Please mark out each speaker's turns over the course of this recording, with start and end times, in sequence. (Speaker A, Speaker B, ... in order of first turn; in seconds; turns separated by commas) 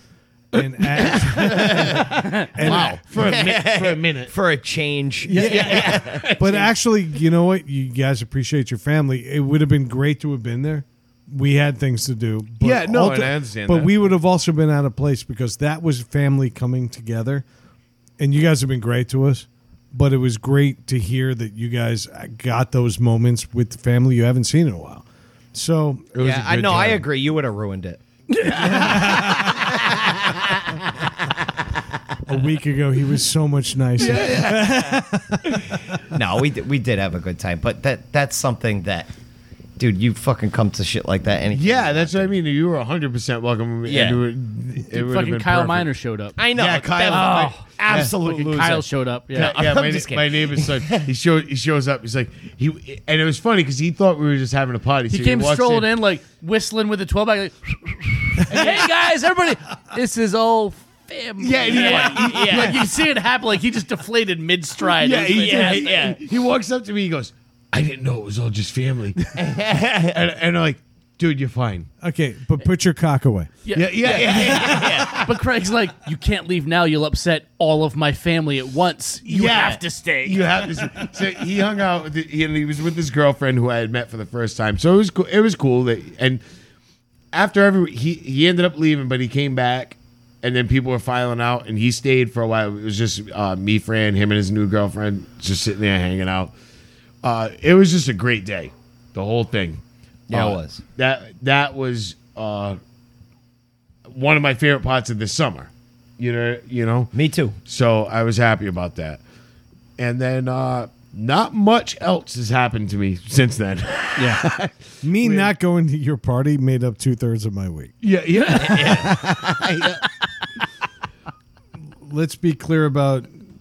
Speaker A: 0.5-3.3, Speaker B: 0.6-4.3, Speaker C: 1.3-6.3, Speaker D: 2.2-2.5, Speaker B: 5.2-6.7, Speaker A: 5.3-17.4, Speaker B: 12.6-13.9, Speaker A: 18.2-26.1, Speaker B: 26.1-27.1, Speaker C: 26.2-28.0, Speaker D: 28.4-28.7, Speaker A: 28.5-29.6, Speaker B: 28.8-29.3, Speaker C: 29.3-31.1, Speaker A: 32.3-36.0, Speaker B: 34.0-34.9, Speaker C: 36.1-39.1, Speaker C: 39.8-42.3, Speaker B: 41.5-45.9, Speaker C: 43.9-44.2, Speaker D: 44.9-46.4, Speaker C: 46.4-51.1, Speaker B: 46.5-48.1, Speaker D: 47.1-49.6, Speaker B: 49.3-55.9, Speaker D: 55.1-66.0, Speaker B: 58.5-58.9, Speaker B: 61.4-62.9, Speaker C: 61.6-62.8, Speaker B: 64.9-69.2, Speaker C: 65.3-66.2, Speaker C: 69.3-70.2, Speaker B: 70.1-71.9, Speaker A: 72.0-73.5, Speaker D: 73.7-80.8, Speaker B: 73.7-75.3, Speaker C: 74.0-75.3, Speaker B: 79.3-86.4, Speaker B: 87.3-96.5, Speaker B: 97.2-102.8, Speaker C: 100.3-100.8, Speaker B: 104.1-107.1, Speaker C: 107.1-107.6, Speaker B: 107.7-109.2, Speaker B: 110.0-115.5, Speaker D: 114.2-114.4, Speaker A: 115.0-118.0, Speaker B: 118.0-120.0, Speaker C: 118.5-119.3, Speaker A: 122.0-123.3